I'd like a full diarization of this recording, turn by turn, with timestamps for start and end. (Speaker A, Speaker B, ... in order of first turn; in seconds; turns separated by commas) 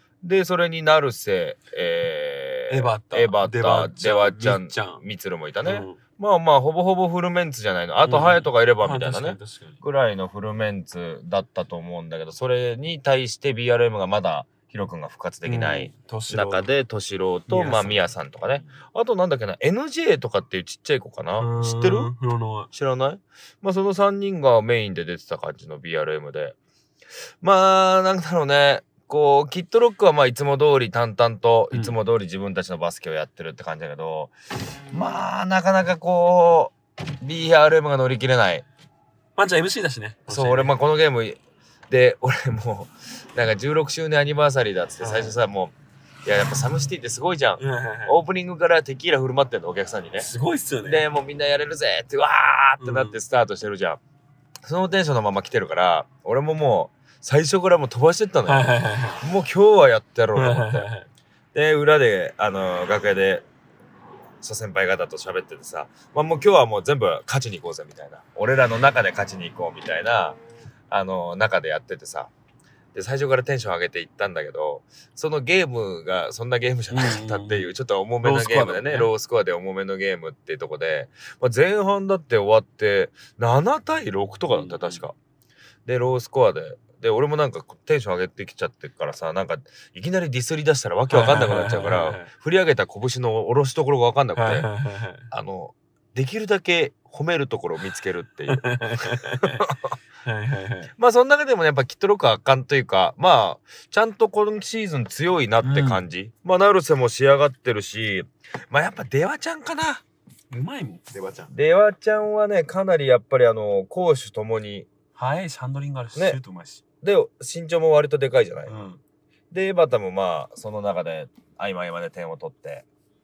Speaker A: 0.2-22.1, Speaker B: 2.7-5.0, Speaker B: 5.6-6.0, Speaker B: 8.0-9.8, Speaker B: 15.4-16.7, Speaker B: 17.5-18.7, Speaker B: 21.4-22.7, Speaker A: 22.7-26.6, Speaker A: 27.4-34.3, Speaker B: 31.7-32.0, Speaker A: 34.9-38.6, Speaker B: 39.4-40.7, Speaker A: 40.3-50.3, Speaker B: 45.0-45.4, Speaker B: 47.6-48.2, Speaker B: 50.2-51.0, Speaker A: 50.8-54.0, Speaker B: 52.8-53.2, Speaker A: 54.6-60.9, Speaker B: 58.5-59.2, Speaker B: 60.3-61.1, Speaker A: 61.5-63.5, Speaker A: 64.4-70.4, Speaker A: 70.9-72.3, Speaker A: 72.9-85.1, Speaker B: 76.9-79.1, Speaker B: 84.5-85.0, Speaker A: 85.8-94.7, Speaker B: 91.1-92.3, Speaker B: 94.3-95.3, Speaker A: 95.3-99.8, Speaker B: 98.5-99.7, Speaker B: 100.2-100.9, Speaker A: 101.0-110.0, Speaker B: 105.6-106.0, Speaker B: 110.5-111.5, Speaker A: 111.5-114.9, Speaker B: 115.1-116.8, Speaker A: 116.1-116.4, Speaker A: 117.0-118.7, Speaker B: 118.7-119.0, Speaker A: 119.5-122.8